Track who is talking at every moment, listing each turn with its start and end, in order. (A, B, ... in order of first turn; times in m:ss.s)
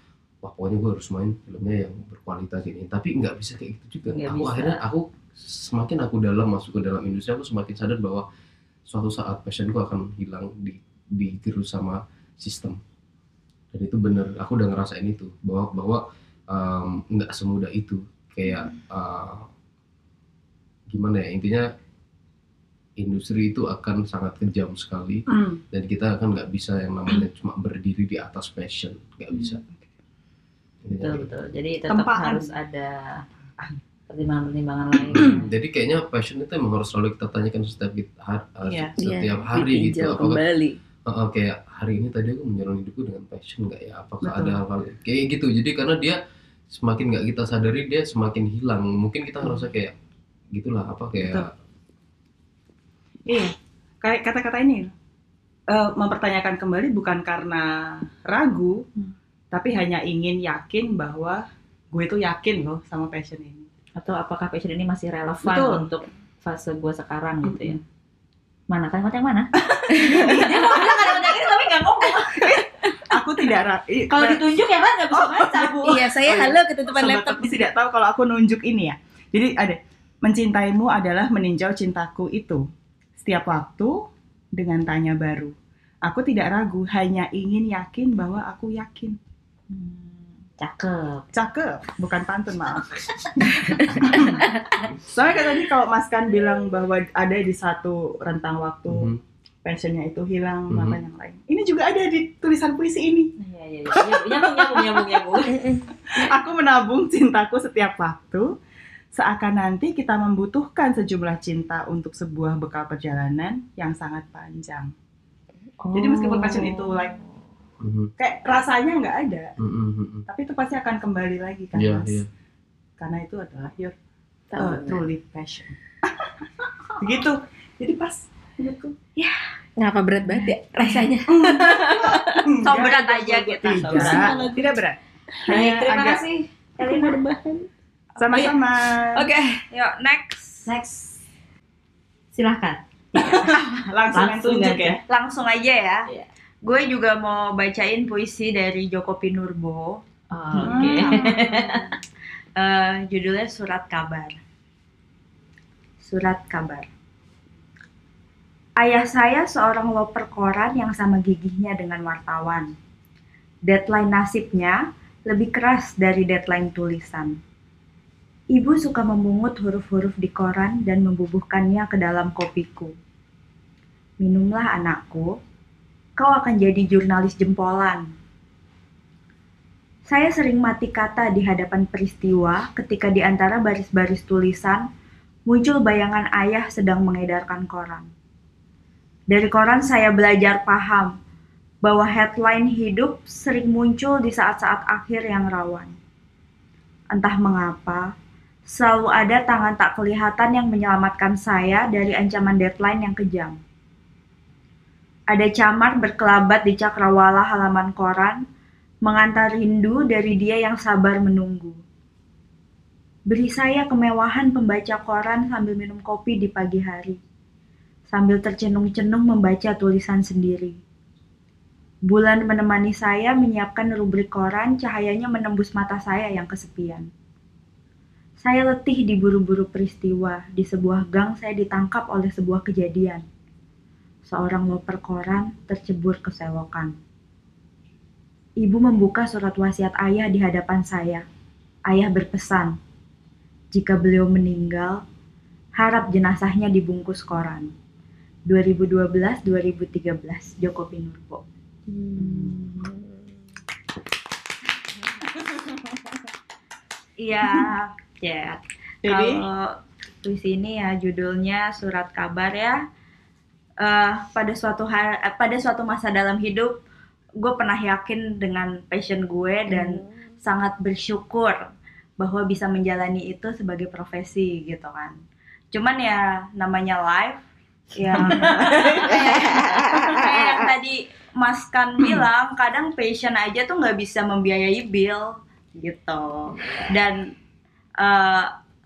0:00.4-0:08.2 A
0:04.1-0:04.8 B
0:08.9-0:12.8 A
0:13.7-0:19.5 A
0:20.9-0:21.6 A
0:23.0-0:29.6 A
0:25.3-0:25.6 C
0:30.8-0:31.3 A
0:31.0-0:33.2 B
0:31.9-0:32.5 C
0:34.1-0:35.5 B
0:35.2-0:40.4 A
0:38.6-0:38.9 C
0:39.0-0:40.8 D
0:41.1-0:46.2 A
0:44.2-0:44.6 C
0:46.7-0:49.9 A
0:50.5-0:51.5 A
0:53.2-0:54.9 C
0:55.7-0:58.8 C
0:59.5-1:03.7 C
1:04.0-1:07.8 B
1:05.4-1:05.8 C
1:07.5-1:07.8 C
1:08.7-1:12.6 B
1:09.7-1:11.2 C
1:09.9-1:10.4 D
1:12.2-1:14.4 C
1:14.1-1:16.0 B
1:15.1-1:22.6 C
1:15.8-1:17.6 D
1:23.2-1:29.2 C
1:29.7-1:31.2 B
1:31.3-1:34.4 C
1:35.0-1:39.1 C
1:38.9-1:39.2 A
1:39.6-1:43.3 C
1:40.7-1:41.0 A
1:43.4-1:45.6 B
1:45.5-1:46.3 D
1:46.1-1:48.5 C
1:49.1-1:54.9 C
1:55.8-1:57.2 B
1:55.9-1:57.2 C
1:57.8-1:58.1 A
1:58.2-1:59.5 C
1:59.6-2:00.2 A
2:00.3-2:02.2 C
2:01.7-2:02.3 A
2:03.0-2:03.9 C
2:04.5-2:05.0 D
2:04.6-2:06.3 C
2:07.0-2:09.0 C
2:09.2-2:09.4 E
2:09.8-2:12.5 D
2:11.3-2:16.2 C
2:12.6-2:14.2 E
2:13.8-2:14.6 D
2:13.9-2:14.5 B
2:15.5-2:17.2 B
2:16.8-2:17.7 D
2:18.2-2:19.3 C
2:19.1-2:19.6 D
2:19.7-2:20.9 E
2:20.7-2:21.0 B
2:22.3-2:23.4 B
2:23.1-2:25.0 C
2:24.1-2:25.0 B
2:25.1-2:26.1 E
2:26.6-2:30.0 E
2:30.3-2:31.8 B
2:30.5-2:31.8 C
2:30.6-2:31.6 E
2:32.6-2:34.4 E
2:36.0-2:36.9 E
2:38.8-2:42.7 E
2:43.6-2:47.4 E
2:48.5-2:52.9 E
2:54.2-2:55.4 E
2:56.2-2:58.0 E
3:00.1-3:04.8 E
3:05.5-3:08.1 E
3:09.3-3:11.1 E
3:11.8-3:16.0 E
3:17.1-3:18.1 E
3:18.7-3:23.6 E
3:25.3-3:28.4 E
3:29.0-3:31.8 E
3:33.3-3:37.2 E
3:38.1-3:40.8 E
3:42.1-3:47.1 E
3:48.4-3:53.2 E
3:54.3-3:57.0 E
3:58.6-4:01.2 E
4:01.9-4:02.8 E
4:03.7-4:05.0 E
4:05.8-4:07.7 E
4:08.5-4:11.4 E
4:12.2-4:12.8 B
4:12.3-4:13.0 D
4:17.2-4:22.8 E
4:19.0-4:19.4 C
4:23.8-4:26.8 E
4:27.4-4:31.6 E
4:29.7-4:30.2 D
4:32.2-4:35.2 E
4:35.7-4:47.3 E
4:38.1-4:39.4 C
4:39.0-4:40.7 D
4:48.0-4:48.5 E